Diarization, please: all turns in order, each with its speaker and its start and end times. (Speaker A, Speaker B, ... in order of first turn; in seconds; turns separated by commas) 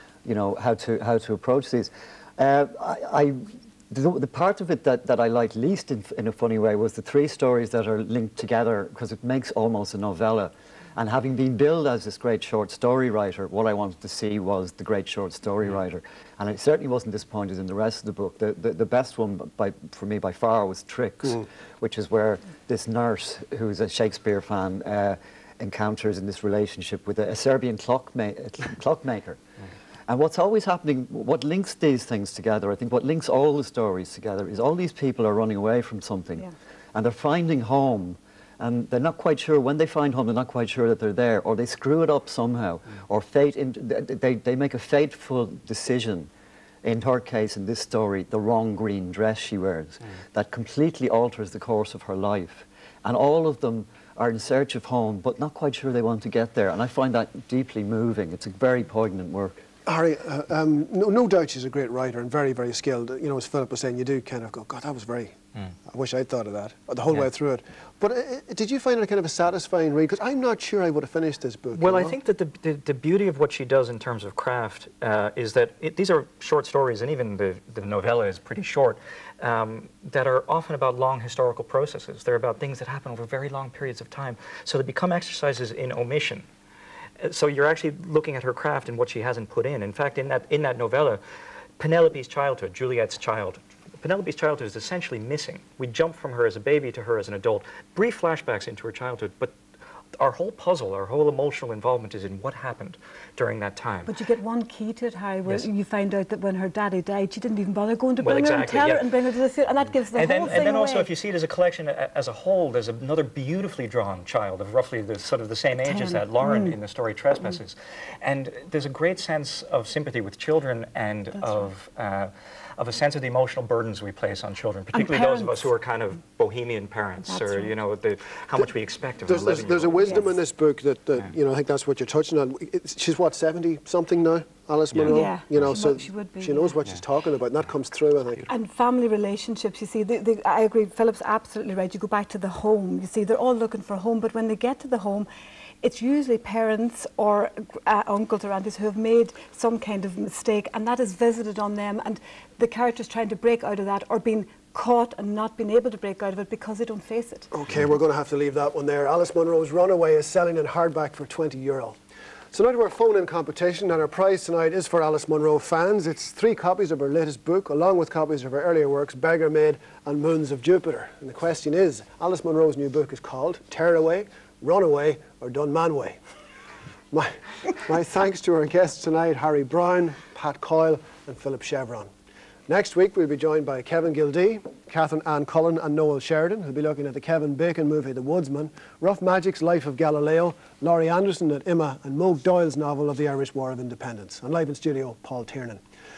Speaker A: 0.2-29.4, Speaker A: 30.1-46.3, Speaker A: 46.8-59.6, Speaker B: 59.9-65.3, Speaker B: 65.9-72.2, Speaker C: 71.7-86.5, Speaker C: 87.2-91.2, Speaker C: 91.8-99.6, Speaker C: 100.2-104.1, Speaker D: 104.1-111.1, Speaker C: 108.2-109.2, Speaker C: 110.1-130.2, Speaker D: 115.8-116.8, Speaker D: 124.9-125.7, Speaker D: 127.3-127.7, Speaker B: 129.2-138.5, Speaker D: 135.1-136.8, Speaker D: 138.5-145.3, Speaker D: 145.8-157.5, Speaker B: 157.5-162.0, Speaker B: 162.5-176.2, Speaker B: 177.1-182.1, Speaker B: 182.7-195.8